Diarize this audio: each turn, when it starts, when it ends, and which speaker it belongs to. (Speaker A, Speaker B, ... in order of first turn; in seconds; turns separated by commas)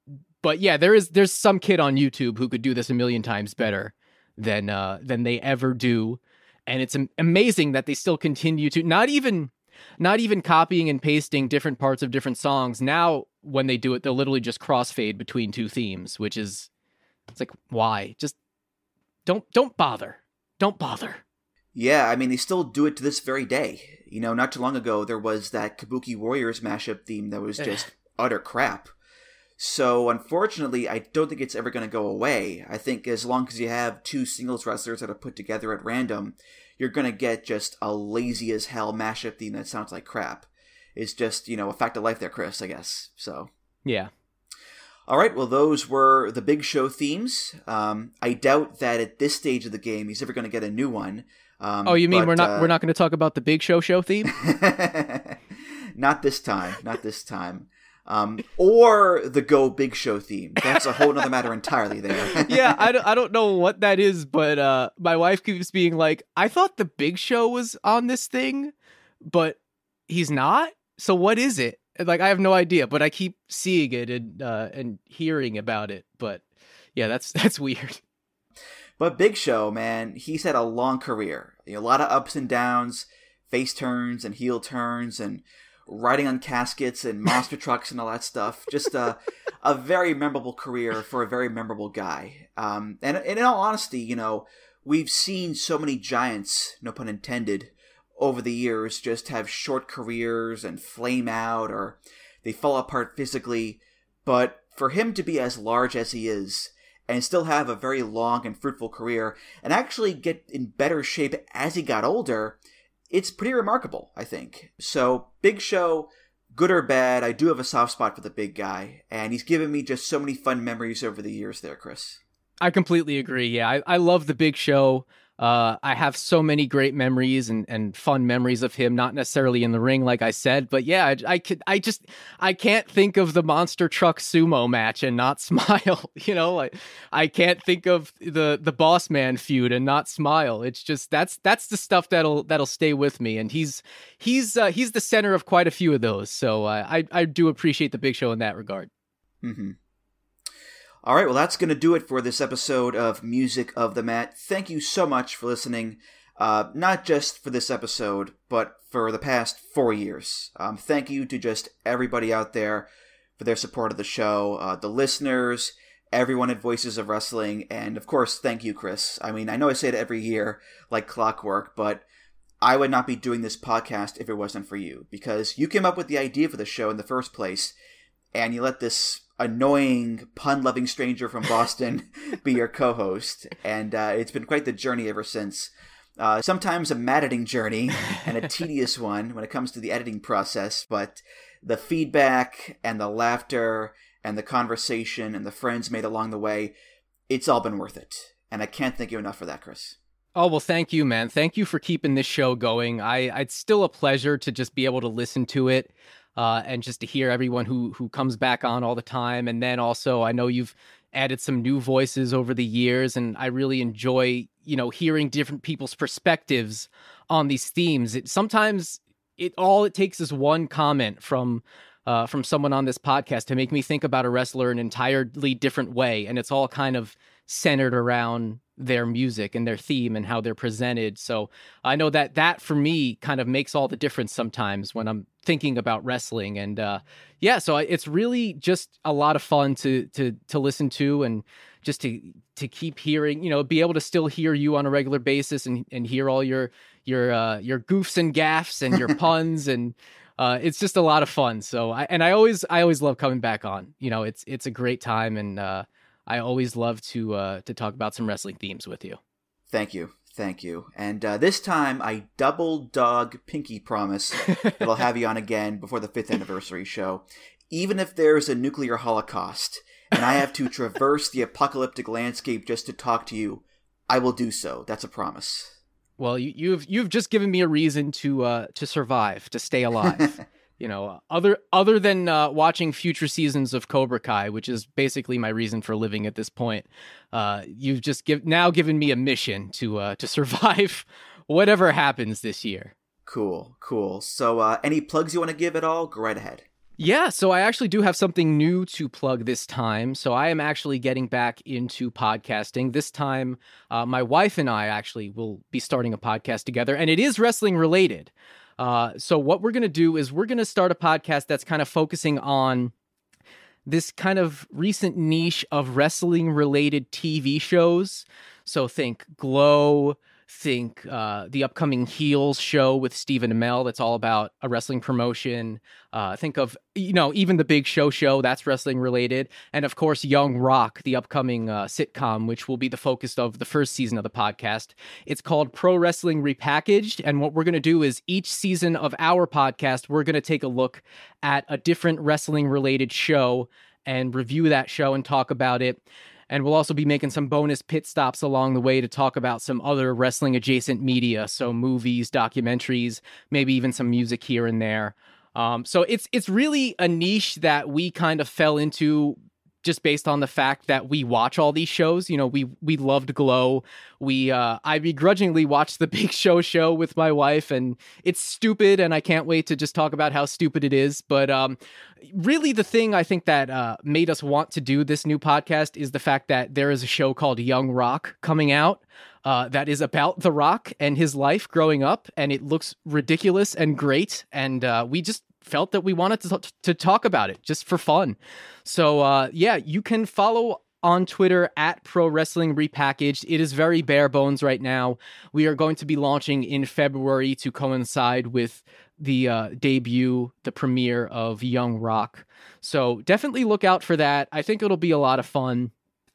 Speaker A: 0.4-16.7, Speaker A: 17.3-18.4, Speaker A: 19.3-21.2, Speaker B: 21.7-28.9, Speaker A: 27.6-27.9, Speaker B: 29.6-43.5, Speaker A: 43.8-44.1, Speaker B: 45.1-52.7, Speaker A: 51.8-54.3, Speaker B: 54.3-55.4, Speaker B: 56.0-62.9, Speaker A: 62.4-68.7, Speaker A: 69.2-76.4, Speaker A: 77.0-78.0, Speaker B: 79.0-112.6, Speaker B: 113.1-122.2, Speaker A: 122.6-148.9, Speaker B: 149.4-149.8, Speaker B: 151.0-172.1, Speaker B: 172.6-177.7, Speaker B: 178.3-196.7, Speaker B: 197.3-200.0, Speaker A: 200.3-259.2, Speaker B: 259.7-275.8, Speaker A: 276.2-292.9, Speaker B: 280.1-280.4, Speaker B: 293.3-296.6, Speaker A: 297.0-312.9, Speaker A: 313.9-405.9